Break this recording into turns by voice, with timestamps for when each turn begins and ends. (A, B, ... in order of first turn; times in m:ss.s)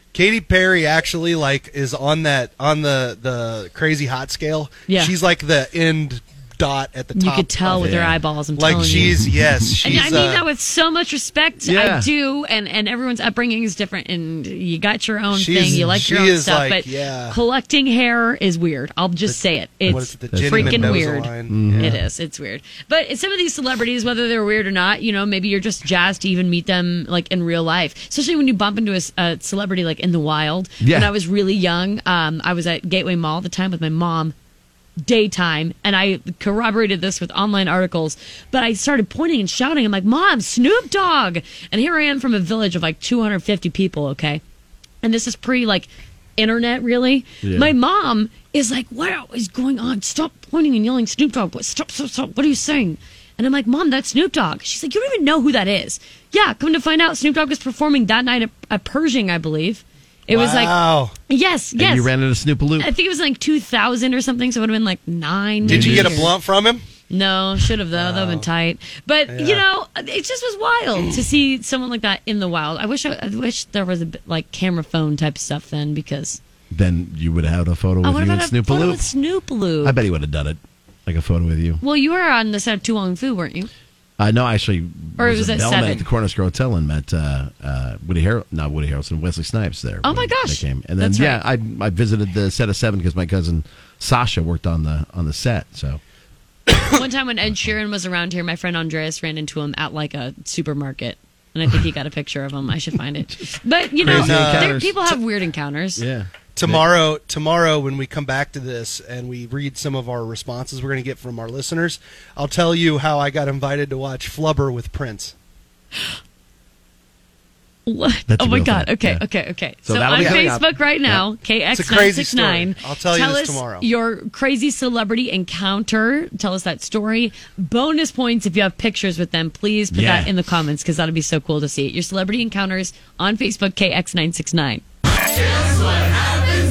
0:00.1-0:08.0 A
0:04.9-0:05.1 B
0:07.1-0:09.2 B
0:07.7-0:10.0 C
0:08.6-0:10.4 A
0:09.8-0:34.3 B
0:11.6-0:12.1 C
0:15.3-0:17.4 A
0:19.3-0:22.0 A
0:19.9-0:22.0 C
0:30.8-0:31.1 C
0:35.0-0:44.4 B
0:45.0-1:02.1 B
0:47.4-0:47.7 C
1:00.3-1:01.1 A
1:01.8-1:02.9 C
1:02.8-1:06.3 B
1:05.6-1:06.3 C
1:05.6-1:06.8 A
1:07.1-1:16.4 B
1:07.9-1:08.5 A
1:09.3-1:09.6 A
1:16.7-1:19.1 C
1:18.0-1:20.0 B
1:19.8-1:21.8 C
1:21.8-1:23.7 B
1:24.2-1:36.0 C
1:25.2-1:26.1 B
1:30.0-1:31.4 B
1:36.9-1:46.0 B
1:44.0-1:45.1 C
1:44.0-1:44.8 A
1:46.0-1:46.9 C
1:46.6-1:55.3 A
1:57.8-2:14.8 B
1:58.3-1:59.2 C
1:59.8-2:01.2 C
2:00.1-2:00.5 A
2:01.7-2:03.9 A
2:09.9-2:10.3 C